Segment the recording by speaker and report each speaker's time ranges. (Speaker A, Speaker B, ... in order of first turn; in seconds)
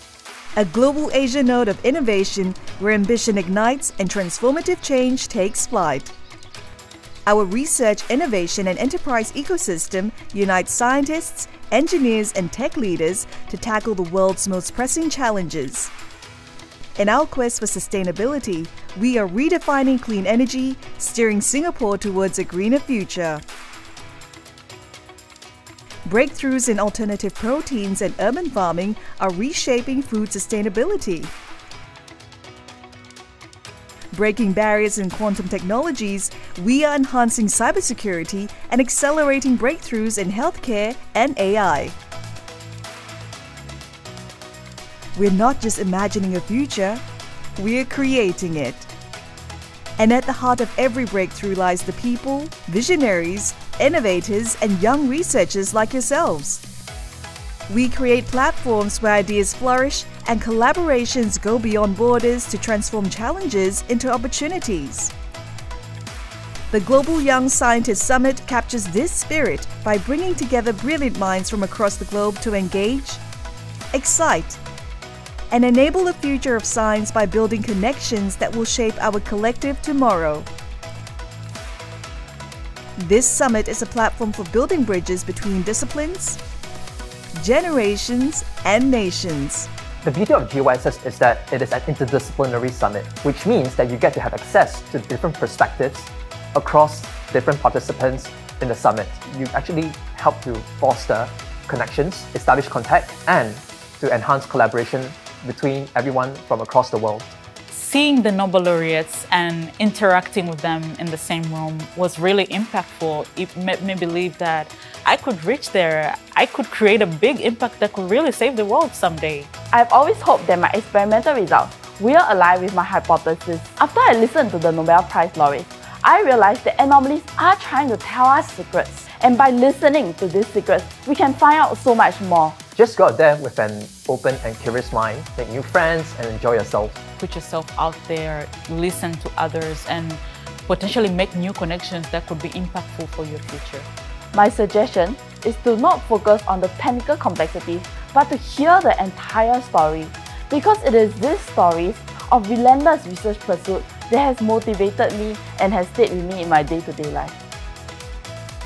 Speaker A: 0.6-6.1, 7.2-15.9, 17.0-23.4, 26.0-31.3, 34.1-42.0, 45.1-47.0, 47.6-48.9, 50.0-56.6, 57.7-65.1, 66.7-73.2, 73.9-74.6, 75.5-80.5, 83.0-86.4, 87.3-89.7
Speaker B: 90.0-107.3, 132.8-137.0
Speaker C: 107.7-119.5, 137.2-143.9
Speaker D: 119.7-132.6, 144.3-157.4